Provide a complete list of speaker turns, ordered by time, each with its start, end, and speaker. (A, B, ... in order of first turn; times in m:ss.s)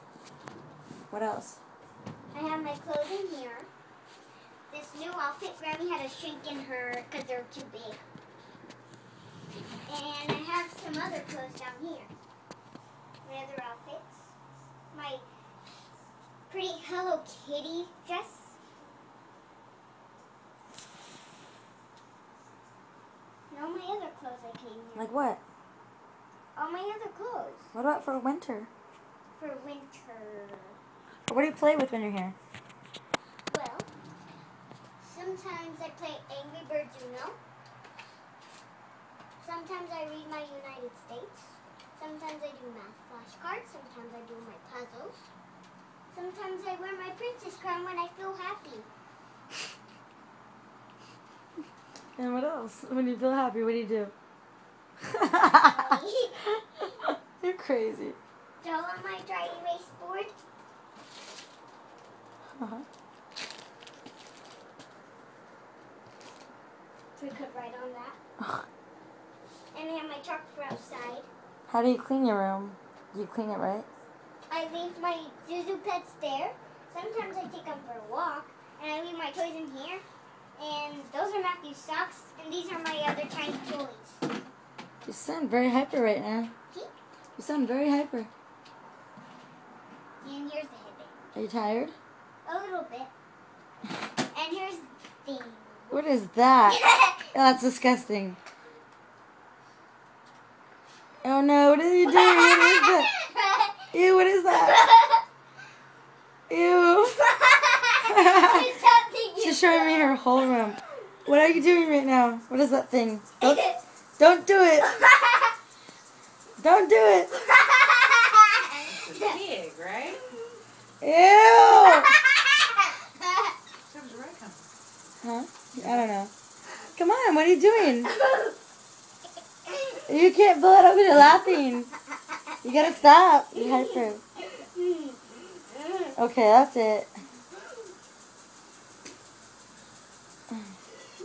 0:01.1-0:01.6 A
0:02.3-0:03.7 B
0:04.7-0:08.0 B
0:09.9-0:12.1 B
0:13.2-0:14.3 B
0:14.9-0:15.2 B
0:16.5-0:18.6 B
0:23.5-0:25.2 B
0:25.0-0:25.4 A
0:26.6-0:27.7 B
0:27.7-0:28.7 A
0:29.4-0:30.8 B
0:31.3-0:32.4 A
0:33.5-0:33.9 B
0:35.0-0:37.4 B
0:39.4-0:45.2 B
0:46.1-0:48.9 B
0:52.2-0:54.1 A
0:55.0-0:58.2 A
0:55.5-0:56.5 B
0:58.6-1:00.4 B
1:02.6-1:02.8 A
1:07.2-1:08.2 B
1:08.4-1:08.7 A
1:09.7-1:11.3 B
1:11.7-1:13.9 A
1:14.5-1:20.0 B
1:20.6-1:24.2 B
1:25.0-1:26.5 A
1:27.4-1:28.3 A
1:30.2-1:31.1 B
1:31.4-1:32.0 A
1:32.5-1:33.1 B
1:34.3-1:36.0 B
1:35.9-1:38.4 A
1:36.6-1:37.4 B
1:41.2-1:43.1 A
1:42.0-1:43.9 B
1:43.9-1:44.8 A
1:44.6-1:45.2 B
1:46.5-1:47.2 A
1:47.1-1:50.2 B
1:48.1-1:48.7 A
1:49.4-1:53.6 A
1:53.4-1:53.8 B
1:54.2-1:54.9 A
1:54.9-1:55.5 B
1:56.6-1:57.3 A
1:57.6-1:59.3 B
1:58.9-2:00.2 C
2:01.0-2:02.1 A
2:01.9-2:03.2 B
2:03.9-2:04.7 C
2:05.2-2:06.3 A
2:07.0-2:08.1 A
2:10.1-2:11.9 A
2:12.6-2:14.2 A
2:13.5-2:16.1 B
2:16.2-2:17.1 A